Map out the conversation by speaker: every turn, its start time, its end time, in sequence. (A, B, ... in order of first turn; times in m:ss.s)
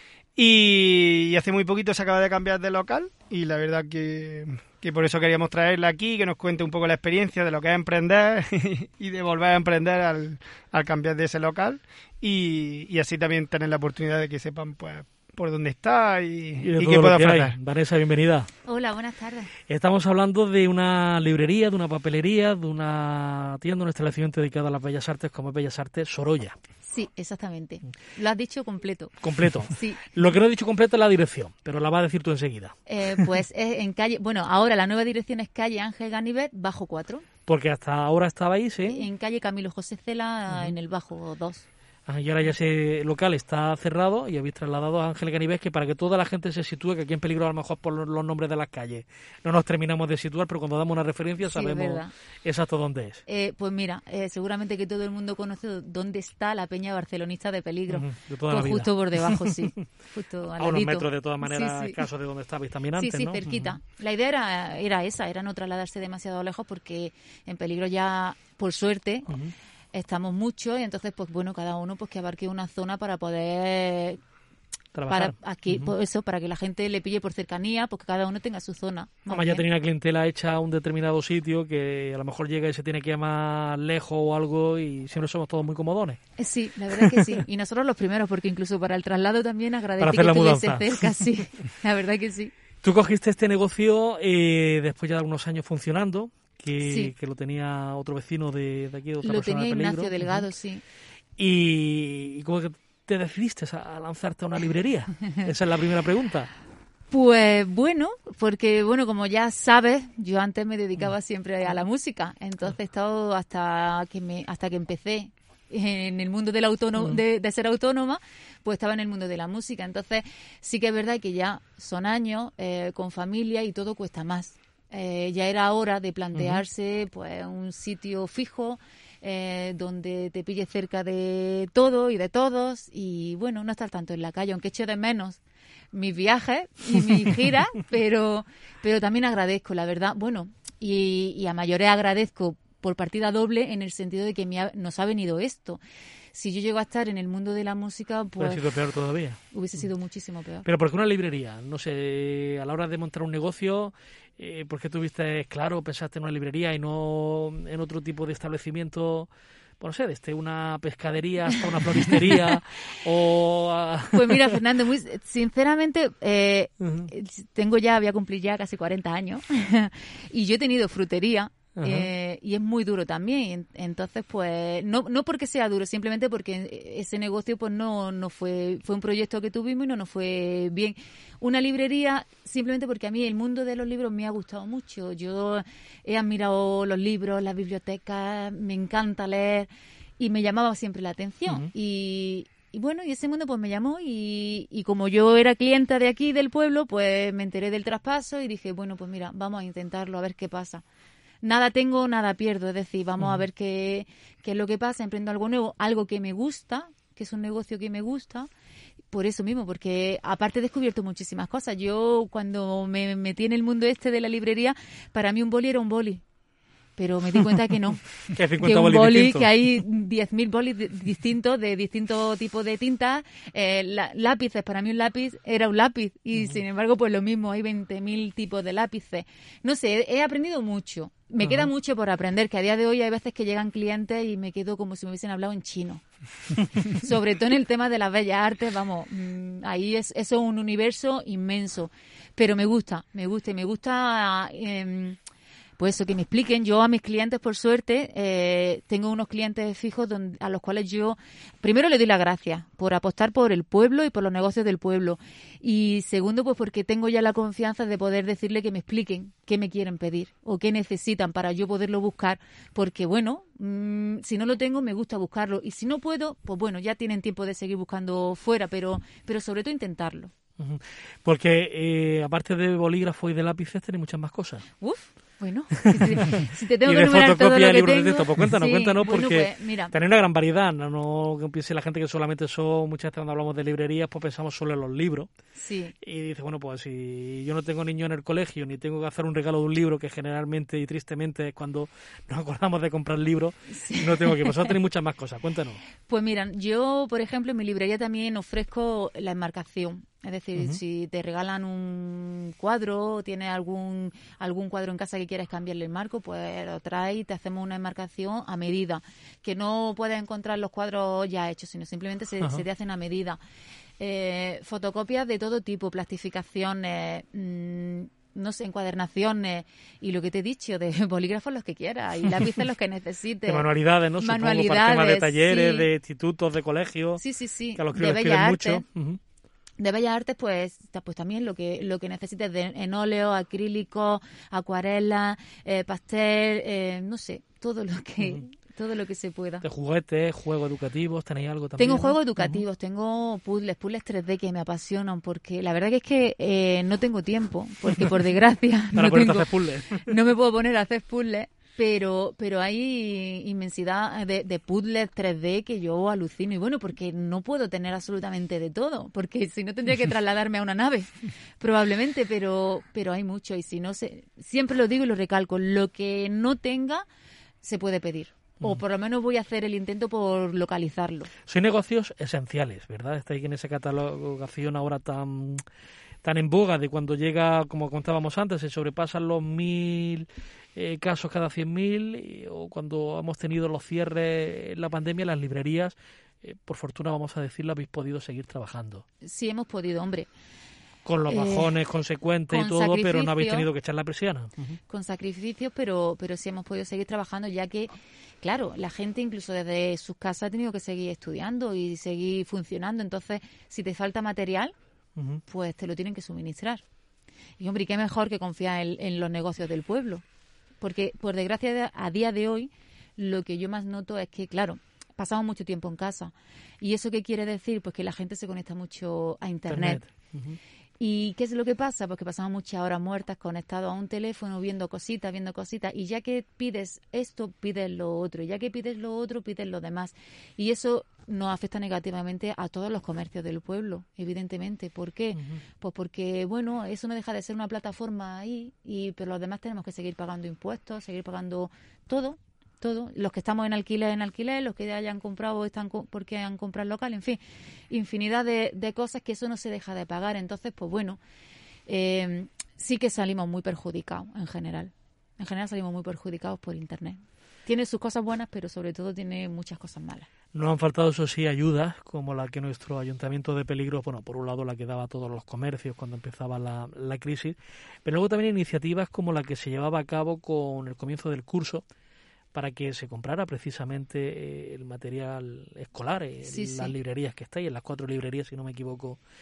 0:00.4-0:17.6 A
0:16.6-0:18.5 B
0:18.7-0:19.5 C
0:19.7-0:26.6 B
0:26.9-0:29.1 C
0:29.2-0:32.8 B
0:29.7-0:30.0 C
0:32.9-0:37.2 C
0:37.5-0:39.1 B
0:38.9-0:41.6 C
0:40.5-0:40.8 B
0:42.1-0:53.2 B
0:51.4-0:52.1 C
0:53.3-1:02.0 C
0:57.9-0:59.5 B
1:00.6-1:03.8 B
1:03.0-1:09.3 C
1:09.9-1:14.2 C
1:15.0-1:15.9 B
1:15.1-1:19.6 C
1:19.3-1:26.2 B
1:26.4-1:32.5 C
1:30.0-1:31.0 B
1:32.8-1:40.5 B
1:36.8-1:37.1 C
1:39.2-1:40.8 C
1:41.4-1:46.5 B
1:47.1-2:15.4 C
1:57.0-1:57.2 B
2:06.4-2:06.6 B
2:15.9-2:25.8 C
2:26.3-2:28.6 C
2:28.4-2:29.8 B
2:29.5-2:30.7 C
2:30.6-2:39.3 B
2:39.8-2:44.6 B
2:44.1-3:20.8 C
2:46.8-2:47.1 B
2:51.8-2:52.1 B
3:21.4-3:28.5 C
3:29.1-3:36.2 C
3:37.0-3:56.0 C
3:38.4-3:39.5 B
3:46.3-3:46.6 B
3:51.4-3:51.7 B
3:56.6-4:05.2 C
4:05.8-4:30.3 C
4:30.6-4:34.7 B
4:34.8-4:39.9 C
4:36.0-4:45.3 B
4:45.6-4:45.9 C
4:46.0-4:55.8 B
4:53.8-4:54.6 C
4:56.1-5:13.4 C
5:14.0-5:25.9 C
5:23.5-5:27.2 B
5:27.2-5:28.8 C
5:27.8-5:29.2 B
5:29.8-5:39.6 C
5:39.6-5:42.6 B
5:41.8-5:49.5 C
5:49.0-5:50.1 B
5:50.0-6:07.1 C
6:07.6-6:11.3 C
6:11.5-6:15.6 B
6:16.2-6:29.0 B
6:29.2-6:30.3 C
6:31.0-6:34.8 B
6:31.3-6:31.8 C
6:32.5-6:33.7 C
6:34.9-6:37.9 C
6:38.4-6:44.7 C
6:45.2-6:45.4 B
6:45.5-6:46.8 C
6:47.6-6:50.2 C
6:50.8-7:00.0 C
6:59.7-7:00.6 B
7:01.0-7:31.2 C
7:15.4-7:15.6 B
7:31.9-7:40.3 C
7:40.5-7:51.8 B
7:52.5-7:59.2 B
7:56.5-7:56.9 C